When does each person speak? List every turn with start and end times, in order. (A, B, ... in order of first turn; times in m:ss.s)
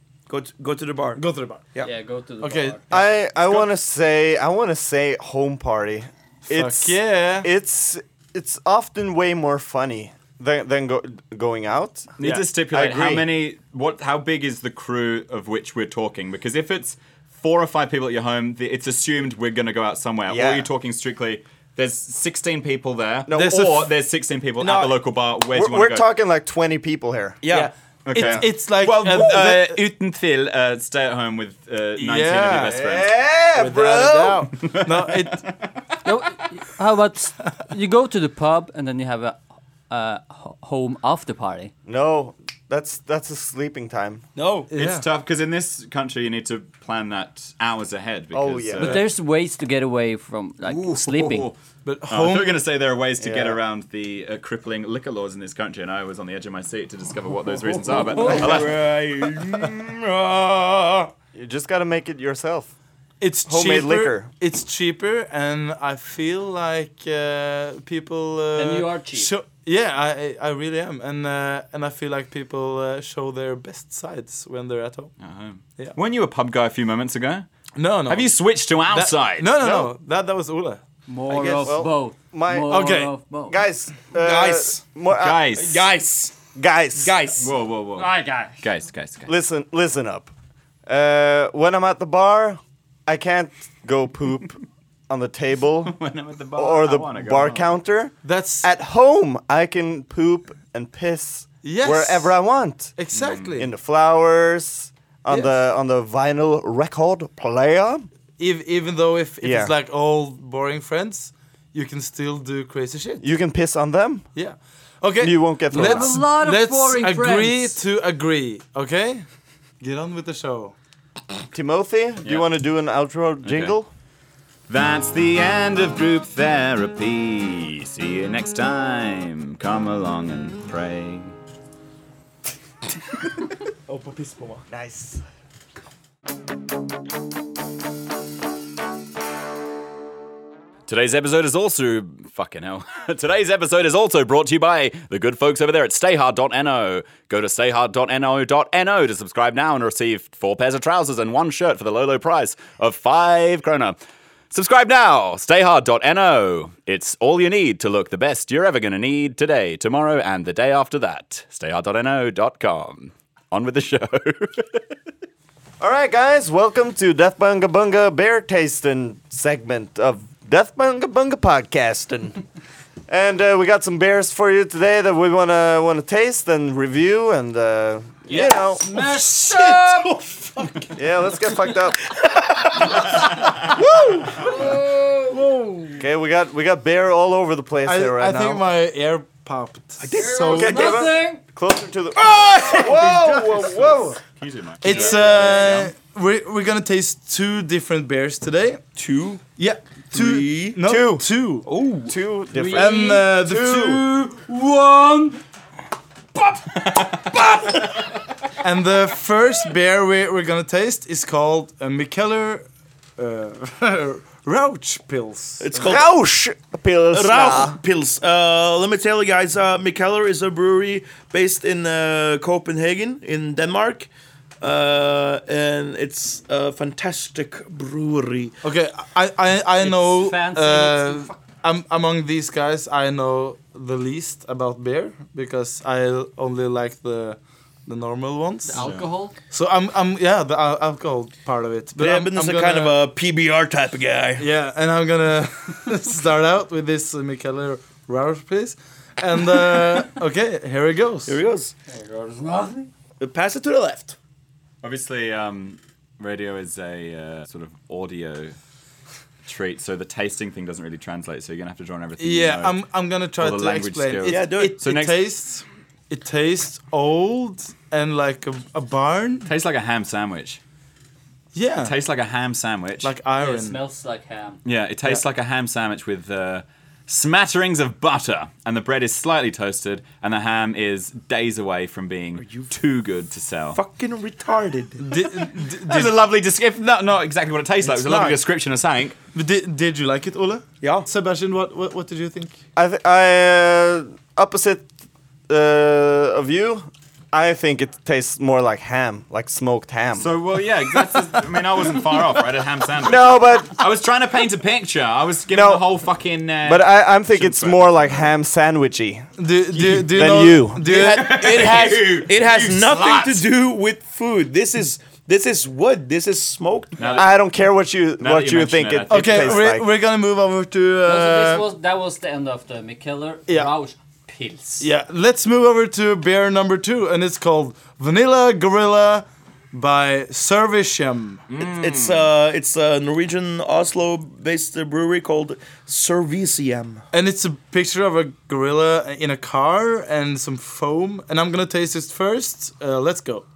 0:00.3-0:01.2 A
0:01.2-0:01.6 B
0:01.8-0:03.0 C
0:02.4-0:02.8 B
0:02.9-0:13.3 D
0:06.5-0:07.5 B
0:12.2-0:26.1 E
0:20.3-0:20.7 D
0:23.3-0:23.6 D
0:23.3-0:23.9 B
0:24.6-0:24.9 A
0:25.5-0:27.4 D
0:27.4-0:27.7 A
0:27.5-0:29.8 B
0:28.0-0:33.1 E
0:28.2-0:28.4 D
0:32.0-0:32.8 B
0:32.7-0:34.4 D
0:33.6-0:35.4 B
0:34.6-0:35.7 E
0:36.0-0:41.7 C
0:41.8-0:44.2 D
0:44.4-0:44.7 A
0:44.7-0:45.0 B
0:44.8-0:49.0 E
0:48.3-0:48.9 D
0:48.8-0:51.5 C
0:50.6-0:51.6 E
0:51.8-0:52.6 B
0:52.1-0:58.8 E
0:53.2-0:53.6 D
0:57.6-1:01.1 A
1:01.3-1:02.7 D
1:03.2-1:15.1 B
1:03.5-1:04.3 D
1:08.6-1:09.3 C
1:15.2-1:17.5 E
1:17.8-1:18.3 B
1:18.1-1:19.5 E
1:18.9-1:20.8 B
1:19.6-1:19.9 D
1:21.1-1:23.6 C
1:21.3-1:25.6 D
1:22.7-1:23.1 B
1:24.2-1:24.8 A
1:25.1-1:25.8 E
1:25.6-1:26.3 A
1:26.6-1:27.2 D
1:27.0-1:27.5 A
1:27.4-1:29.3 E
1:28.0-1:28.6 C
1:29.3-1:30.3 D
1:30.8-1:36.0 D
1:35.8-1:37.7 E
1:36.5-1:42.9 D
1:38.2-1:38.7 B
1:41.6-1:42.3 B
1:43.0-1:43.7 B
1:43.1-1:43.5 E
1:43.6-1:48.1 D
1:45.3-1:45.5 B
1:48.4-1:53.2 B
1:49.4-1:49.7 D
1:53.2-1:54.3 D
1:54.3-1:59.2 B
1:55.2-1:56.2 D
1:55.7-1:57.8 C
1:59.8-2:00.7 B
2:01.5-2:03.9 D
2:03.4-2:03.8 E
2:04.7-2:11.4 E
2:13.9-2:14.7 A
2:14.7-2:15.2 D
2:20.9-2:34.0 E
2:34.5-2:44.8 E
2:45.8-2:52.4 D
2:53.1-2:58.8 D
2:58.3-3:00.3 C
2:59.0-3:00.8 B
3:00.9-3:02.0 D
3:02.1-3:03.0 A
3:03.7-3:04.4 D
3:04.4-3:06.0 C
3:05.3-3:05.9 B
3:06.0-3:08.6 D
3:07.8-3:11.0 B
3:10.0-3:11.1 A
3:10.1-3:11.4 C
3:10.5-3:14.2 D
3:12.2-3:13.6 A
3:12.8-3:13.6 B
3:14.4-3:15.9 E
3:14.8-3:18.8 B
3:14.9-3:15.4 C
3:19.0-3:19.4 A
3:19.6-3:21.7 B
3:20.1-3:20.8 A
3:20.8-3:21.2 D
3:21.6-3:22.2 A
3:22.0-3:23.1 D
3:22.5-3:23.4 C
3:22.7-3:24.2 B
3:24.3-3:25.4 C
3:26.9-3:27.5 E
3:28.6-3:32.6 B
3:33.2-3:35.7 B
3:35.6-3:36.1 A
3:35.7-3:37.8 D
3:37.1-3:44.1 A
3:44.6-3:48.6 A
3:48.6-3:58.8 B
3:49.8-3:51.4 C
3:58.6-3:59.4 C
3:58.8-3:59.1 E
3:59.5-4:03.0 B
4:02.0-4:04.5 A
4:04.4-4:11.4 B
4:11.2-4:11.7 A
4:11.9-4:12.9 C
4:13.2-4:14.2 A
4:14.8-4:18.6 E
4:19.4-4:22.8 E
4:22.2-4:29.5 B
4:23.4-4:25.3 E
4:24.3-4:24.8 A
4:29.4-4:30.6 E
4:31.5-4:31.9 B
4:31.8-4:33.1 E
4:33.0-4:33.8 B
4:33.3-4:34.6 C
4:34.6-4:43.8 E
4:42.4-4:42.7 A
4:43.7-4:45.0 A
4:45.0-4:46.1 B
4:45.8-4:49.2 E
4:47.8-4:48.4 A
4:49.3-4:52.5 B
4:50.8-4:51.1 A
4:52.8-4:54.9 D
4:55.5-5:00.3 D
5:00.2-5:08.3 E
5:03.0-5:03.8 D
5:05.5-5:05.8 D
5:06.6-5:09.3 D
5:09.4-5:11.8 B
5:10.1-5:10.8 D
5:10.8-5:17.2 A
5:10.9-5:13.4 E
5:17.0-5:17.3 E
5:17.1-5:19.9 D
5:18.2-5:19.7 E
5:19.1-5:21.6 B
5:21.0-5:24.9 C
5:24.8-5:31.4 B
5:31.5-5:32.3 E
5:31.6-5:37.0 A
5:37.1-5:43.4 B